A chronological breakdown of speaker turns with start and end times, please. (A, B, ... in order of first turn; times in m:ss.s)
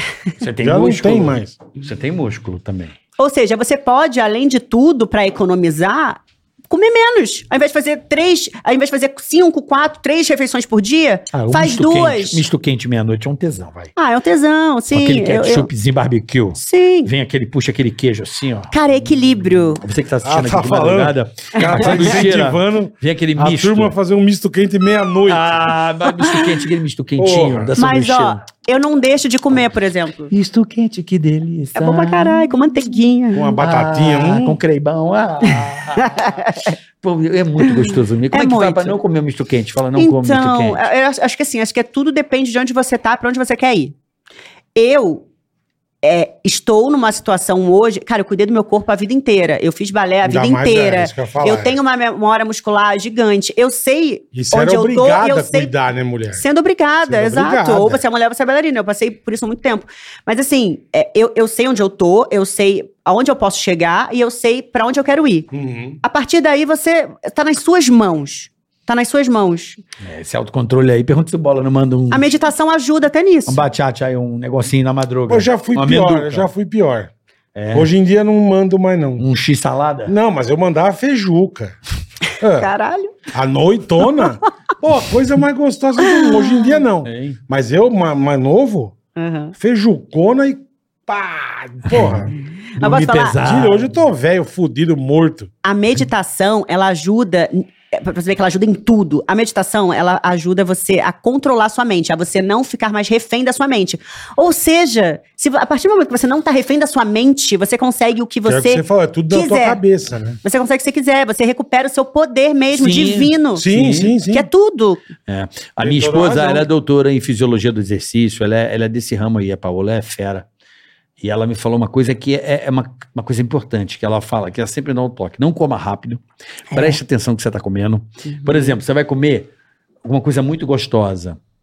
0:00.4-0:02.9 A
0:00.6-0:01.6 B
0:03.2-0:12.4 C
0:11.3-0:13.9 A
0:14.0-0:15.7 C
0:14.9-0:18.7 A
0:16.5-0:17.1 C
0:18.7-0:19.8 C
0:19.7-0:23.9 A
0:20.2-0:25.6 B
0:21.6-0:22.0 C
0:25.3-0:28.4 A
0:26.2-0:26.6 C
0:27.2-0:27.7 B
0:27.8-0:30.3 C
0:30.3-0:32.5 A
0:31.7-0:33.6 C
0:33.3-0:34.6 B
0:33.6-0:40.8 A
0:35.5-0:36.8 C
0:37.6-0:39.0 C
0:40.0-0:43.9 C
0:44.7-0:45.2 C
0:46.0-0:55.7 C
0:50.2-0:51.8 B
0:54.3-0:56.4 B
0:56.3-1:05.5 C
0:57.0-0:58.0 B
1:05.5-1:06.0 B
1:06.0-1:09.8 C
1:10.0-1:12.3 A
1:12.1-1:13.6 C
1:13.5-1:16.5 A
1:15.3-1:17.1 B
1:17.5-1:17.9 A
1:17.7-1:19.2 B
1:19.2-1:20.1 A
1:20.1-1:21.8 B
1:22.4-1:22.7 B
1:22.5-1:23.2 C
1:23.3-1:28.9 B
1:26.0-1:26.8 C
1:27.0-1:27.4 A
1:29.2-1:29.5 C
1:29.6-1:35.5 B
1:31.9-1:32.3 A
1:32.6-1:33.4 C
1:32.8-1:33.9 A
1:35.6-1:49.8 C
1:48.4-1:50.4 B
1:50.4-1:53.6 C
1:52.7-1:54.1 A
1:53.6-1:54.5 B
1:54.3-1:55.0 C
1:55.3-2:00.4 A
1:55.8-1:56.7 B
2:01.2-2:06.2 A
2:06.7-2:07.0 C
2:06.7-2:09.5 A
2:08.2-2:08.7 C
2:10.0-2:11.4 A